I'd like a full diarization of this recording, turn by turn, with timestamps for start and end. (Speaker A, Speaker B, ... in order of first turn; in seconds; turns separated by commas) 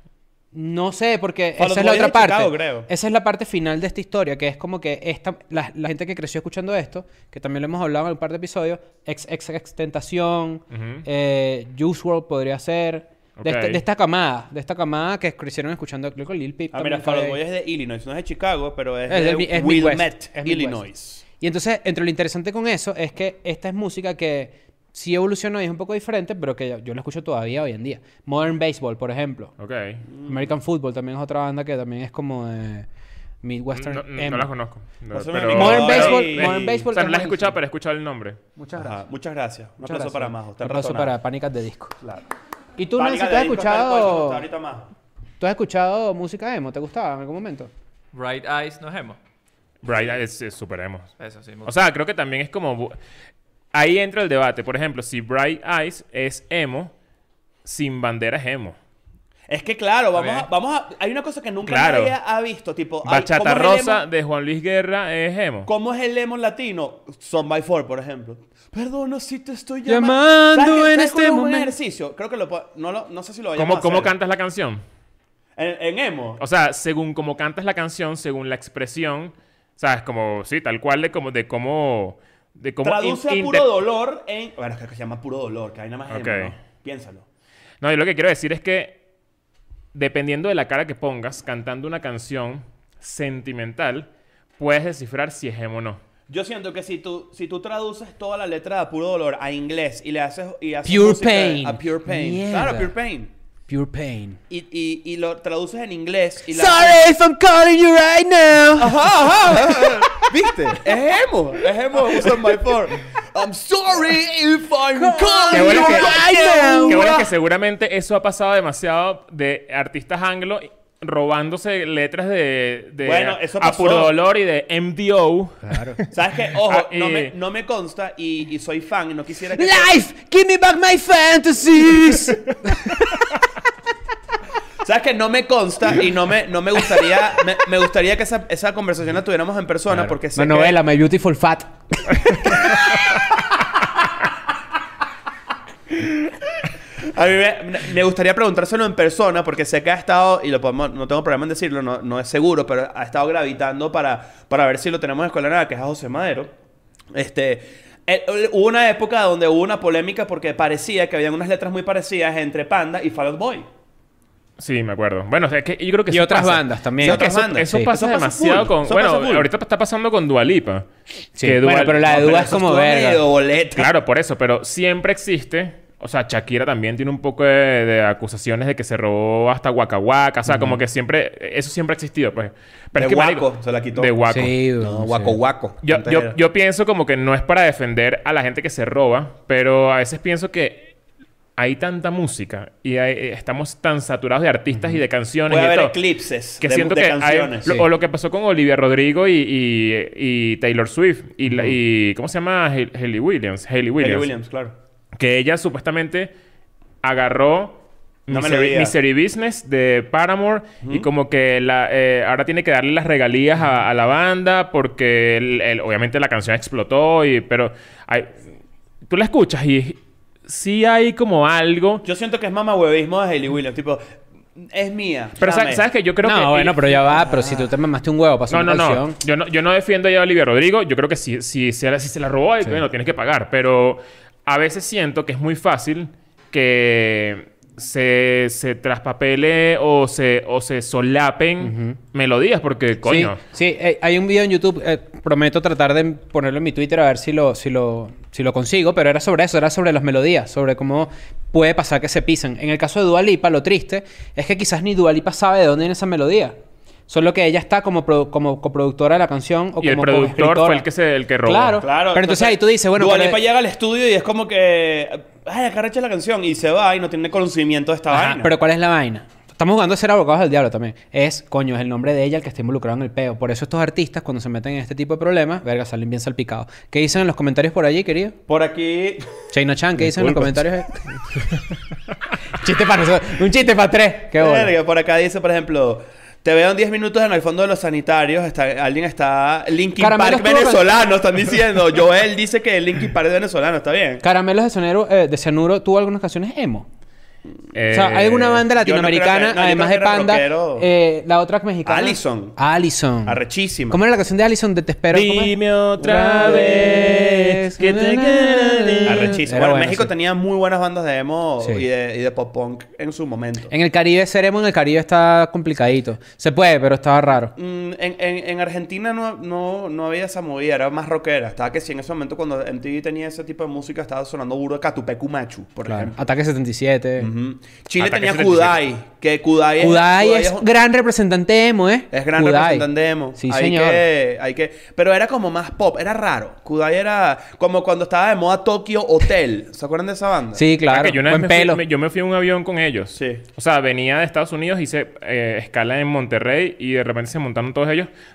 Speaker A: 0.5-17.4, Speaker B: 1.6-2.9, Speaker C: 10.7-11.0, Speaker C: 13.4-13.8, Speaker B: 16.7-21.2, Speaker A: 19.1-20.8, Speaker A: 21.4-29.5, Speaker C: 29.6-30.0, Speaker B: 30.1-30.5, Speaker A: 30.2-32.9, Speaker A: 33.4-34.5, Speaker C: 33.7-38.4, Speaker B: 35.1-36.8, Speaker A: 35.5-37.6, Speaker A: 38.5-39.0, Speaker B: 38.8-41.1, Speaker A: 39.8-41.9, Speaker B: 42.0-42.2, Speaker A: 42.8-44.5, Speaker B: 43.0-44.9, Speaker A: 45.4-47.7, Speaker D: 48.1-49.2, Speaker C: 49.8-51.1, Speaker D: 51.2-51.7, Speaker C: 51.6-53.0, Speaker C: 53.7-56.9, Speaker C: 57.6-58.8, Speaker B: 59.5-64.0, Speaker D: 60.1-60.5, Speaker C: 61.6-62.1, Speaker C: 63.0-65.7, Speaker B: 65.7-74.1, Speaker A: 69.8-71.7, Speaker C: 73.5-74.8, Speaker B: 75.6-76.4, Speaker C: 76.4-83.7, Speaker B: 82.8-87.2, Speaker C: 86.1-86.5, Speaker C: 87.8-89.0, Speaker C: 89.9-96.0, Speaker B: 96.3-103.3, Speaker A: 100.8-102.9, Speaker A: 103.7-104.4, Speaker B: 104.5-107.0, Speaker A: 106.5-110.3, Speaker B: 108.8-117.3, Speaker A: 115.0-117.1, Speaker C: 115.5-116.1, Speaker C: 116.9-126.1, Speaker B: 123.0-124.1, Speaker A: 125.7-126.0, Speaker B: 126.1-129.9, Speaker C: 126.6-127.3, Speaker A: 129.5-133.2, Speaker B: 134.8-140.8, Speaker A: 139.9-142.7, Speaker B: 147.0-156.5, Speaker B: 157.1-163.7, Speaker C: 164.6-170.9, Speaker A: 166.1-167.9, Speaker B: 167.0-169.5, Speaker A: 171.4-173.2, Speaker C: 171.4-172.1, Speaker B: 172.0-173.9, Speaker C: 173.8-184.5, Speaker B: 182.9-184.1, Speaker A: 184.3-185.3, Speaker B: 184.8-186.3, Speaker C: 185.8-190.9, Speaker C: 191.6-195.9, Speaker B: 195.5-197.9, Speaker C: 196.6-204.3, Speaker B: 204.0-204.7, Speaker C: 205.2-206.3, Speaker C: 207.0-218.4, Speaker B: 208.3-208.9, Speaker C: 219.1-222.0, Speaker B: 222.0-224.0, Speaker B: 224.5-225.8, Speaker C: 225.4-227.0, Speaker A: 226.2-229.2, Speaker B: 227.2-227.6, Speaker C: 228.5-243.4, Speaker A: 241.6-242.0, Speaker A: 243.0-256.6, Speaker A: 257.1-260.8, Speaker C: 259.8-261.8, Speaker A: 261.4-263.4, Speaker B: 261.8-268.5, Speaker A: 268.1-278.4, Speaker B: 278.5-279.2, Speaker A: 279.5-281.0, Speaker C: 280.1-280.5, Speaker A: 282.5-284.7, Speaker B: 284.3-294.2, Speaker A: 290.0-291.0, Speaker A: 294.2-296.9, Speaker C: 297.7-298.6, Speaker A: 297.9-310.1, Speaker B: 298.8-300.9, Speaker B: 301.8-302.6, Speaker B: 303.2-304.0, Speaker C: 305.1-309.3, Speaker B: 306.0-307.1, Speaker B: 309.1-313.7, Speaker A: 313.7-317.5, Speaker B: 317.6-326.2, Speaker A: 325.9-327.3, Speaker B: 327.2-330.7, Speaker C: 328.0-328.8, Speaker A: 329.8-334.0, Speaker B: 332.1-340.6, Speaker A: 340.5-341.8, Speaker C: 340.9-348.1, Speaker B: 343.1-343.4